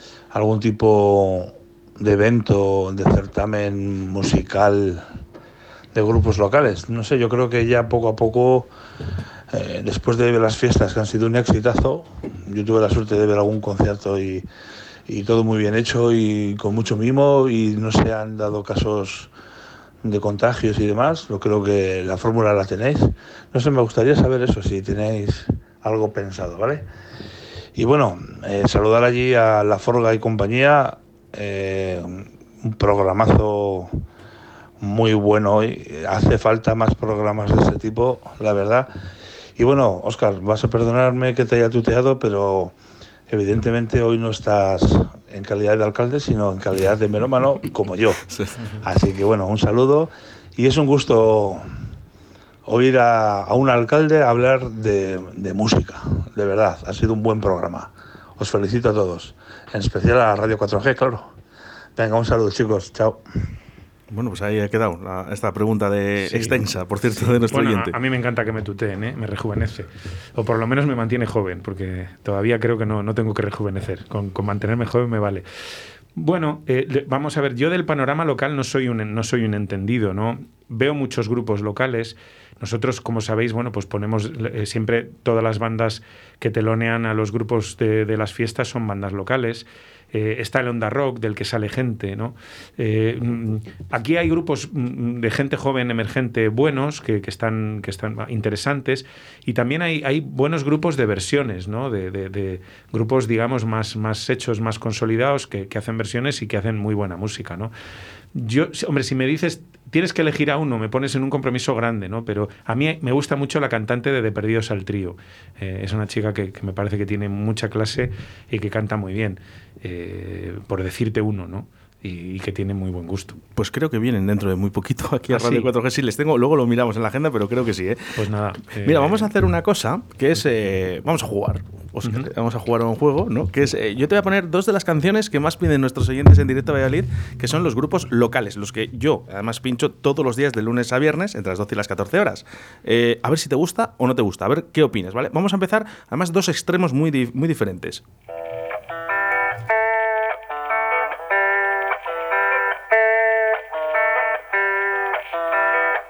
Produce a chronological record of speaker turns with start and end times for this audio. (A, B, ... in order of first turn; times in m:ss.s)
0:00.3-0:05.0 A
0:05.9-0:08.7 A
0:09.5-0:14.5 A
0:15.1-0:19.3 A
0:20.0-0:26.8 A
0:27.8-0:34.0 A
0:34.8-0:38.9 A
0:39.6-0:42.8 A
0:43.3-0:48.2 A
0:48.3-0:48.6 B
0:48.8-0:51.6 A
0:52.6-1:01.3 A
1:02.0-1:03.2 A
1:04.1-1:08.0 B
1:06.2-1:06.6 C
1:07.1-1:15.4 C
1:16.2-1:47.7 C
1:48.3-2:03.4 C
2:03.6-2:08.2 B
2:05.3-2:05.7 C
2:08.2-2:09.3 C
2:08.8-2:28.0 B